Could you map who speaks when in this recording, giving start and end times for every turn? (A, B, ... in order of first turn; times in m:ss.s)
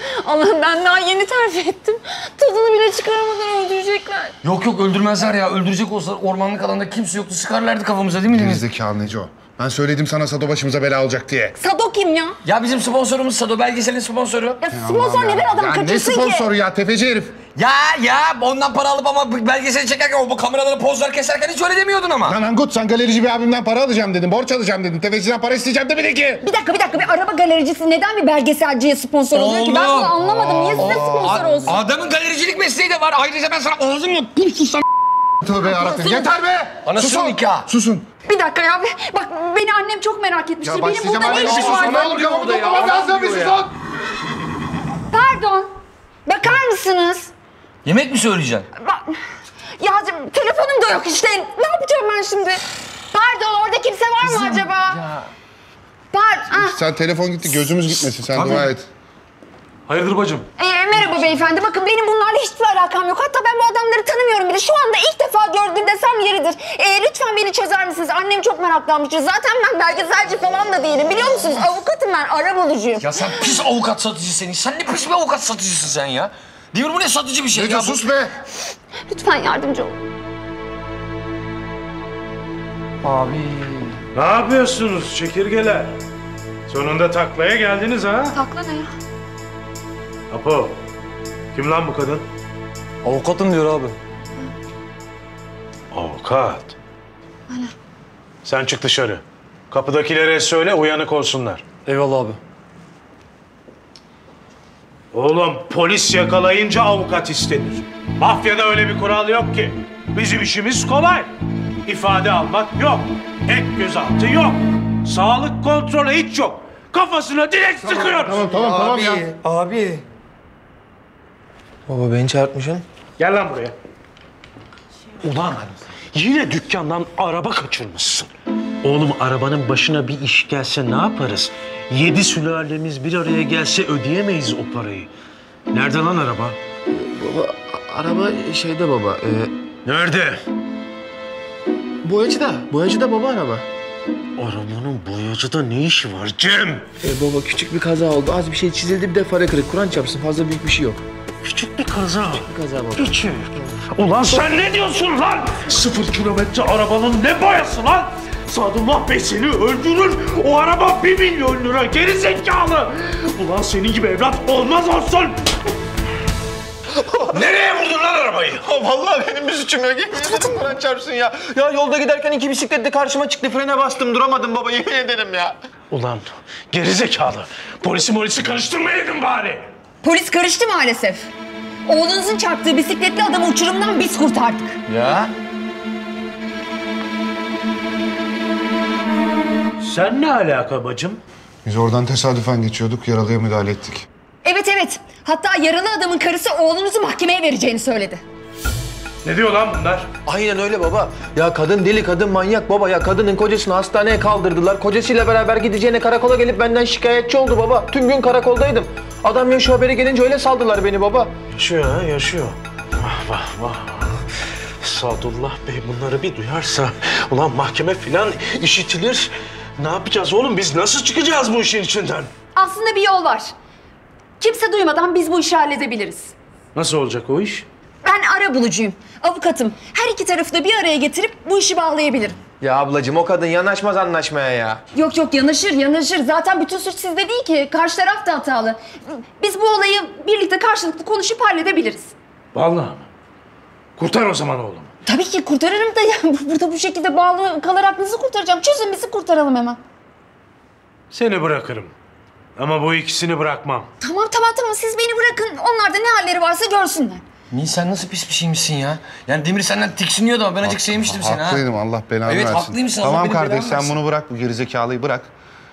0:00.2-0:04.3 A
0:04.4-0:08.6 B
0:08.3-0:11.6 C
0:11.6-0:12.4 A
0:12.4-0:14.6 B
0:14.6-0:16.5 A
0:14.7-0:17.4 C
0:17.6-0:22.4 B
0:22.2-0:26.4 C
0:26.4-0:31.8 A
0:29.3-0:34.8 B
0:30.9-0:31.4 C
0:35.4-0:38.1 C
0:35.7-0:36.3 A
0:36.8-0:37.7 B
0:38.3-0:42.2 A
0:40.6-0:43.7 C
0:41.2-0:43.6 B
0:45.1-0:45.7 A
0:46.3-0:47.3 A
0:47.8-0:48.7 B
0:48.8-0:49.2 A
0:49.8-0:55.0 A
0:56.1-0:56.8 A
0:56.5-0:58.9 C
0:58.4-0:58.6 D
0:59.9-1:00.5 D
1:00.6-1:13.6 A
1:13.0-1:18.0 B
1:17.5-1:18.3 C
1:19.1-1:20.0 A
1:23.0-1:23.9 B
1:24.2-1:26.0 D
1:26.7-1:28.4 D
1:28.3-1:28.9 A
1:30.3-1:30.8 D
1:31.6-1:32.2 D
1:33.0-1:34.0 B
1:35.9-1:36.8 D
1:38.4-1:41.6 D
1:41.9-1:42.4 B
1:45.1-1:51.3 D
1:51.9-1:58.5 D
1:58.1-1:59.2 C
2:01.9-2:02.8 E
2:03.2-2:03.7 D
2:05.2-2:05.6 D
2:06.1-2:08.3 D
2:08.8-2:15.1 D
2:15.7-2:16.6 D
2:16.9-2:19.5 E
2:19.8-2:20.4 D
2:22.0-2:23.6 E
2:24.4-2:26.9 D
2:27.0-2:31.0 E
2:31.4-2:45.4 D
2:32.4-2:33.2 E
2:47.3-2:48.6 D
2:48.6-2:55.6 E
2:55.9-2:59.7 D
3:00.0-3:01.3 A
3:01.9-3:04.8 A
3:04.9-3:05.3 B
3:09.8-3:11.2 D
3:11.6-3:14.1 C
3:14.4-3:18.2 A
3:19.2-3:20.1 D
3:20.3-3:31.3 E
3:31.5-3:34.2 D
3:34.8-3:42.3 D
3:42.6-3:43.5 A
3:44.4-3:46.3 A
3:46.8-3:47.7 D
3:48.0-3:52.4 A
3:52.6-3:54.8 E
3:55.0-4:02.1 A
4:02.5-4:03.1 D
4:04.0-4:04.9 D
4:05.1-4:09.8 A
4:11.1-4:11.9 D
4:12.6-4:13.9 D
4:14.0-4:17.2 A
4:17.5-4:21.6 B
4:20.6-4:25.3 C
4:22.3-4:23.9 B